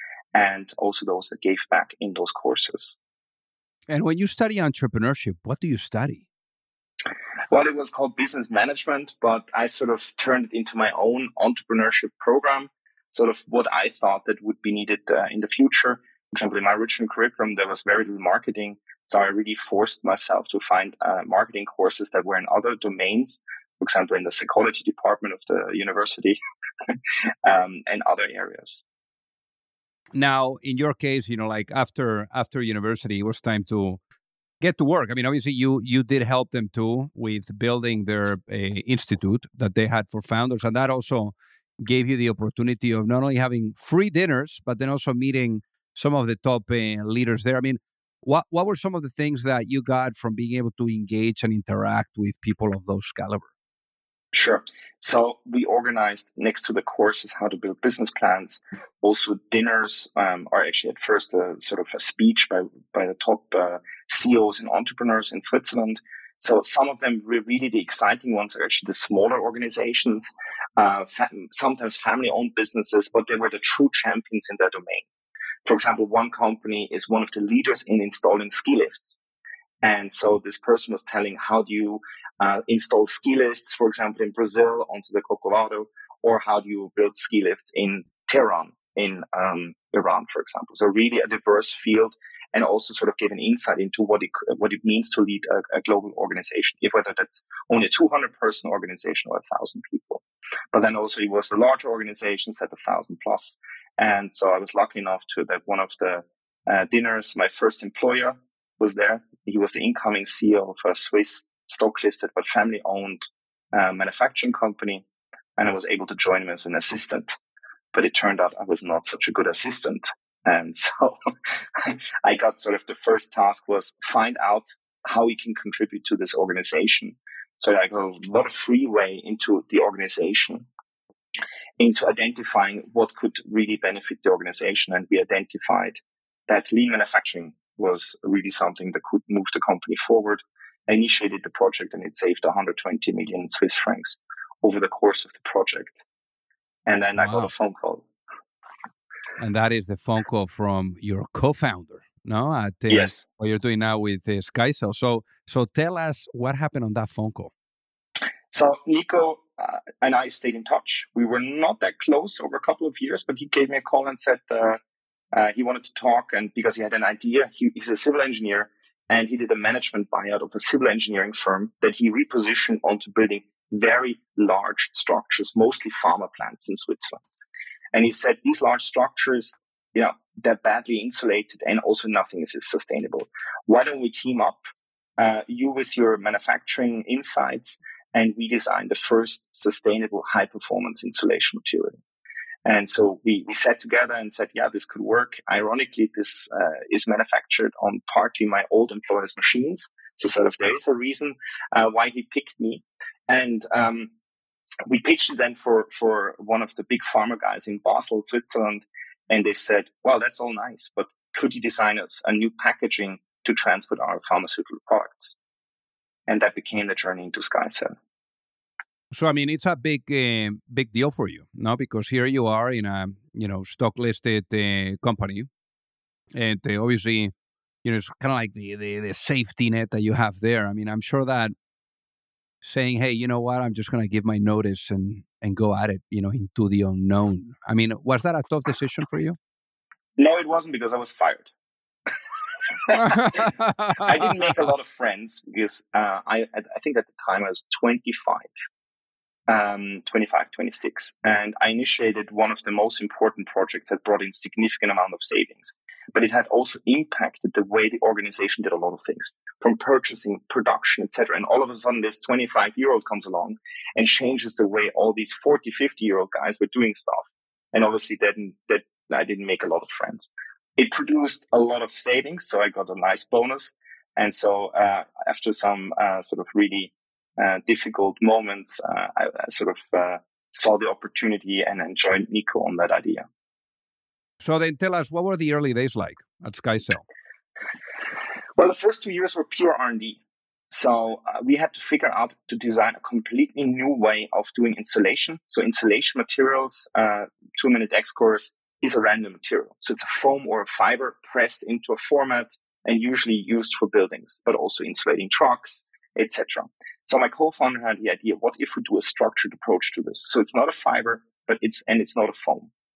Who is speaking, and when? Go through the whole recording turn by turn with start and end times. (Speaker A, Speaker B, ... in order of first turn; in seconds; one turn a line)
Speaker A: 0.3-3.0
Speaker B: 3.9-6.2
Speaker A: 7.5-26.4
Speaker A: 27.4-28.8
Speaker B: 30.1-34.0
Speaker B: 34.6-53.5
Speaker A: 54.3-75.1
Speaker A: 75.7-79.2
Speaker A: 79.8-115.0
Speaker A: 115.6-117.3
Speaker A: 117.9-121.2
Speaker A: 121.8-130.7
Speaker A: 131.8-146.0
Speaker A: 146.9-148.1
Speaker B: 147.2-147.5
Speaker B: 149.4-157.5
Speaker A: 152.9-153.2
Speaker A: 158.5-164.8
Speaker A: 165.3-177.2
Speaker A: 177.9-184.6
Speaker A: 185.2-192.0
Speaker A: 192.7-204.1
Speaker A: 204.9-215.3
Speaker A: 216.3-217.9
Speaker B: 219.1-225.5
Speaker B: 226.3-227.3
Speaker B: 227.8-231.5
Speaker B: 232.6-239.4
Speaker A: 240.2-241.5
Speaker A: 242.7-248.5
Speaker B: 242.9-244.5
Speaker A: 249.5-283.3
Speaker B: 284.4-287.0
Speaker A: 288.6-290.2
Speaker A: 290.7-312.7